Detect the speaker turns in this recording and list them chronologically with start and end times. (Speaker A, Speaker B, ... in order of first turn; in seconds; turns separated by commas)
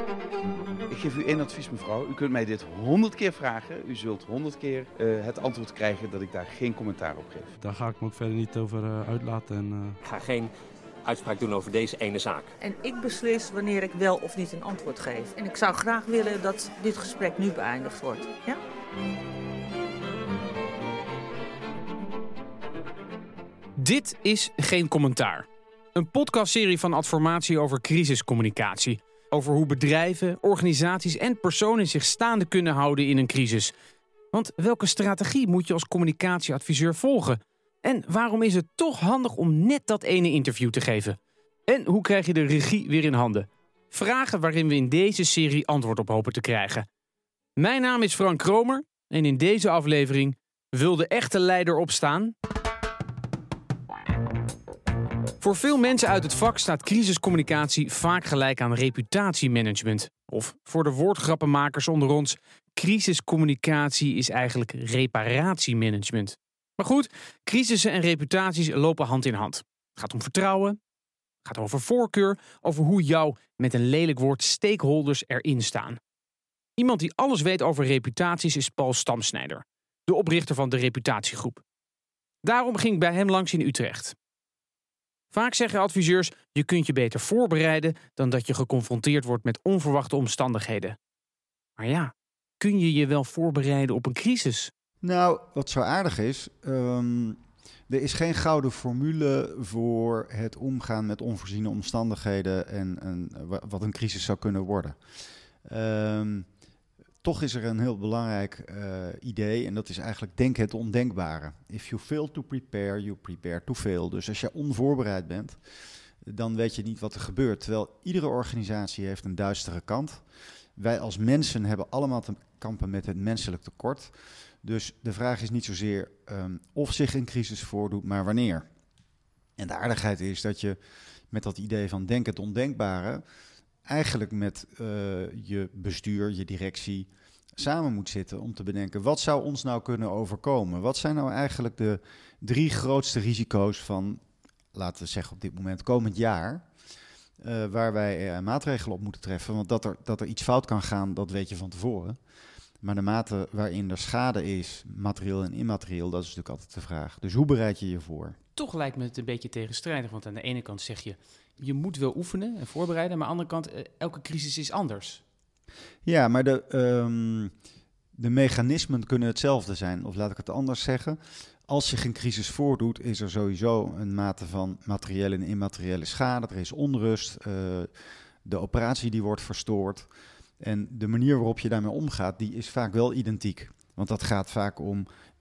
Speaker A: 0.9-7.5, Speaker B: 7.6-10.0, Speaker C: 10.0-10.5, Speaker C: 11.0-12.5, Speaker D: 12.6-18.6, Speaker E: 23.8-33.7, Speaker E: 34.3-46.9, Speaker E: 47.6-52.3, Speaker E: 55.4-70.8, Speaker E: 71.4-76.0, Speaker E: 76.8-81.6, Speaker E: 82.4-84.2, Speaker E: 85.3-91.0, Speaker E: 91.8-94.7, Speaker F: 95.0-105.0, Speaker F: 105.7-106.5, Speaker F: 107.2-115.6, Speaker F: 116.2-120.2, Speaker F: 120.8-124.1, Speaker F: 124.6-128.7, Speaker F: 129.6-130.8, Speaker F: 131.3-133.2, Speaker F: 133.9-144.2, Speaker F: 144.7-146.7, Speaker F: 147.4-152.2, Speaker F: 152.8-158.4, Speaker E: 158.6-165.2, Speaker F: 166.1-167.5, Speaker F: 168.1-177.9, Speaker F: 178.4-180.1, Speaker F: 180.6-185.1